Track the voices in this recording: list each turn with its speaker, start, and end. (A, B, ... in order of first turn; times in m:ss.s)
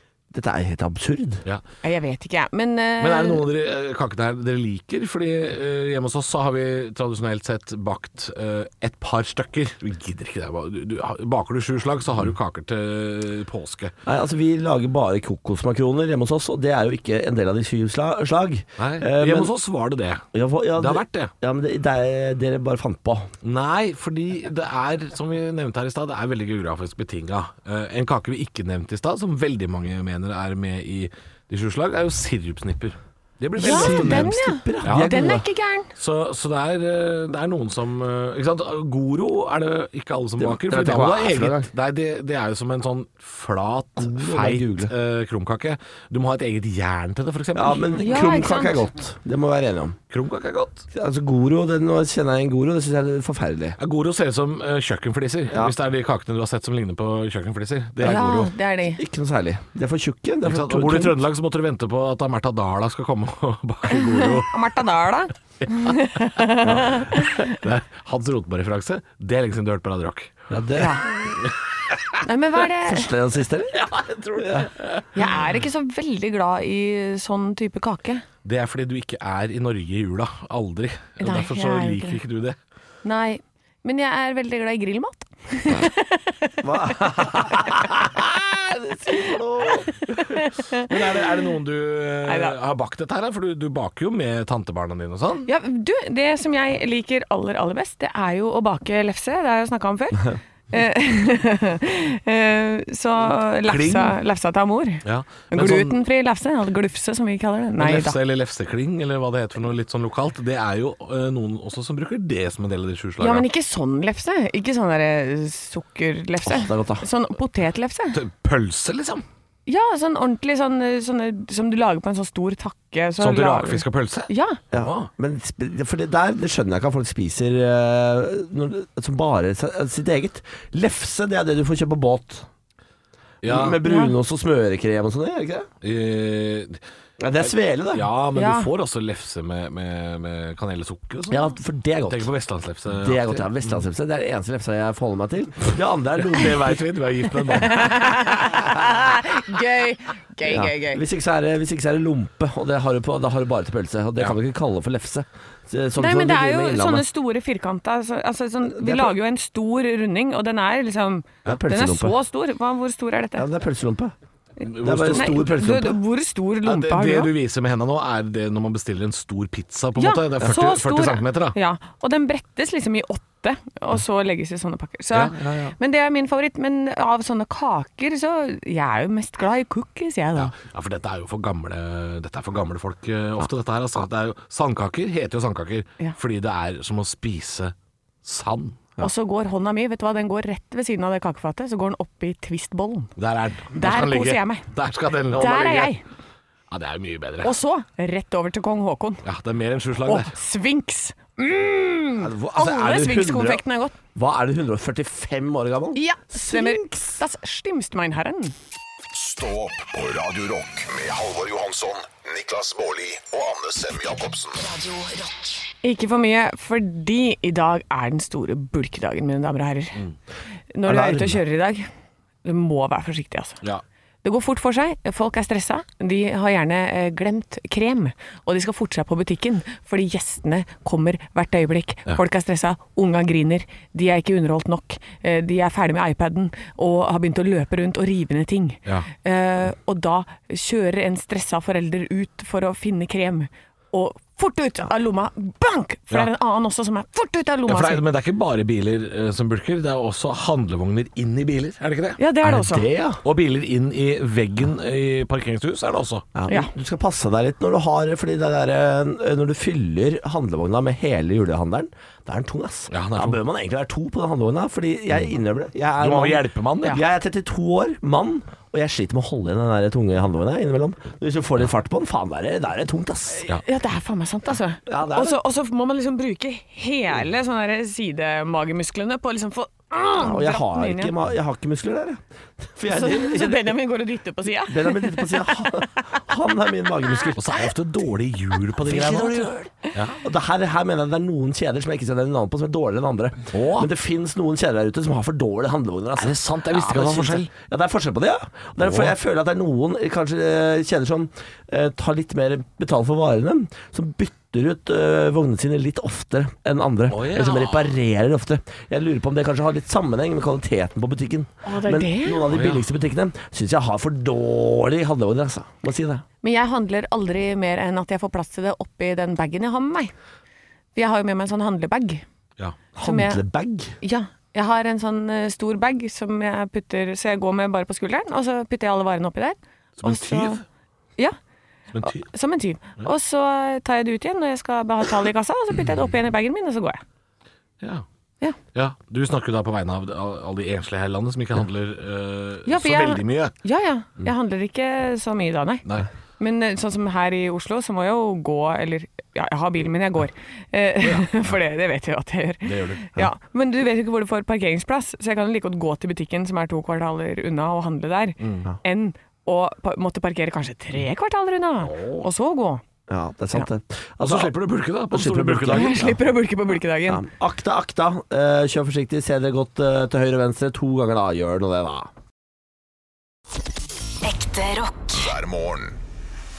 0:00.3-0:01.4 A
0:01.8-0:03.4 B
0:03.0-0:13.9 C
0:14.0-0:19.5 A
0:18.8-0:20.2 C
0:20.3-0:23.3 A
0:20.8-0:21.3 C
0:23.4-0:35.2 C
0:33.6-0:35.4 A
0:33.6-0:35.9 B
0:36.0-0:48.0 C
0:40.4-0:41.7 A
0:44.0-0:44.9 A
0:47.6-0:50.0 A
0:48.0-0:48.9 B
0:50.1-0:50.8 C
0:50.9-0:53.8 A
0:53.8-0:58.5 C
0:58.0-0:59.0 B
0:59.0-1:01.2 A
1:00.4-1:04.5 C
1:03.9-1:07.6 B
1:06.0-1:10.4 C
1:10.5-1:11.1 A
1:10.8-1:11.1 B
1:11.4-1:11.9 C
1:12.2-1:13.1 B
1:12.8-1:13.8 A
1:13.7-1:15.1 C
1:14.4-1:14.7 A
1:15.1-1:18.2 B
1:18.4-1:22.6 C
1:21.2-1:22.2 B
1:23.0-1:26.6 B
1:26.6-1:30.0 A
1:30.3-1:30.9 B
1:30.7-1:35.5 C
1:32.3-1:32.6 B
1:35.5-1:48.2 B
1:43.6-1:44.2 C
1:45.0-1:46.0 C
1:47.8-1:53.5 C
1:53.2-1:58.2 B
1:56.4-1:57.0 A
1:58.1-1:59.2 C
1:59.7-2:04.6 B
2:03.2-2:05.1 C
2:04.7-2:12.5 A
2:13.4-2:13.8 C
2:13.4-2:15.7 A
2:13.8-2:14.2 B
2:15.8-2:16.8 C
2:17.2-2:18.1 A
2:17.4-2:21.5 C
2:18.4-2:18.7 B
2:21.3-2:22.3 A
2:22.1-2:23.8 C
2:22.9-2:26.8 A
2:26.2-2:28.4 C
2:27.6-2:31.0 B
2:30.4-2:37.1 A
2:36.0-2:43.5 B
2:38.7-2:39.2 A
2:41.5-2:42.2 A
2:43.4-2:44.1 A
2:44.6-2:45.4 C
2:44.8-2:46.0 A
2:45.1-2:47.3 B
2:46.6-2:51.6 C
2:50.0-3:00.5 B
2:55.1-2:55.7 C
3:00.4-3:08.9 C
3:09.0-3:13.1 B
3:13.2-3:16.0 C
3:13.7-3:14.7 B
3:15.3-3:16.0 B
3:16.7-3:17.6 C
3:17.4-3:19.2 B
3:19.2-3:20.3 C
3:20.0-3:24.0 B
3:22.2-3:23.6 A
3:24.2-3:27.2 A
3:26.0-3:28.6 B
3:29.1-3:34.6 D
3:34.6-3:35.7 E
3:35.8-3:40.0 B
3:40.7-3:41.9 B
3:40.9-3:41.4 A
3:42.4-3:43.6 B
3:44.2-4:08.0 B
4:07.7-4:12.2 C
4:12.2-4:12.9 B
4:12.4-4:13.2 A
4:13.2-4:16.3 C
4:16.4-4:33.5 A
4:22.9-4:23.4 C
4:26.0-4:27.0 C
4:33.5-4:41.2 B
4:34.9-4:35.4 A
4:40.2-4:43.7 A
4:42.9-4:45.8 B
4:44.7-4:47.7 A
4:47.4-4:50.2 C
4:48.8-5:16.2 A
4:53.5-4:53.9 C
4:56.2-4:57.5 C
4:58.8-4:59.2 C
5:07.1-5:07.9 C
5:11.6-5:12.4 B
5:12.5-5:12.8 C
5:16.4-5:20.1 B
5:21.0-5:22.2 B
5:23.0-5:24.0 A
5:23.0-5:23.4 B
5:24.0-5:30.6 B
5:30.0-5:30.6 C
5:31.9-5:32.3 C
5:32.0-5:37.0 B
5:38.7-5:43.5 C
5:42.7-5:45.8 B
5:46.4-6:02.8 B
5:51.0-5:51.5 C
5:52.6-5:53.1 C
5:58.4-5:58.7 C
6:01.8-6:02.3 C
6:03.1-6:04.6 A
6:04.2-6:06.1 C
6:05.1-6:06.2 A
6:05.7-6:07.2 B
6:07.1-6:12.1 A
6:14.2-6:15.4 E
6:15.1-6:16.0 D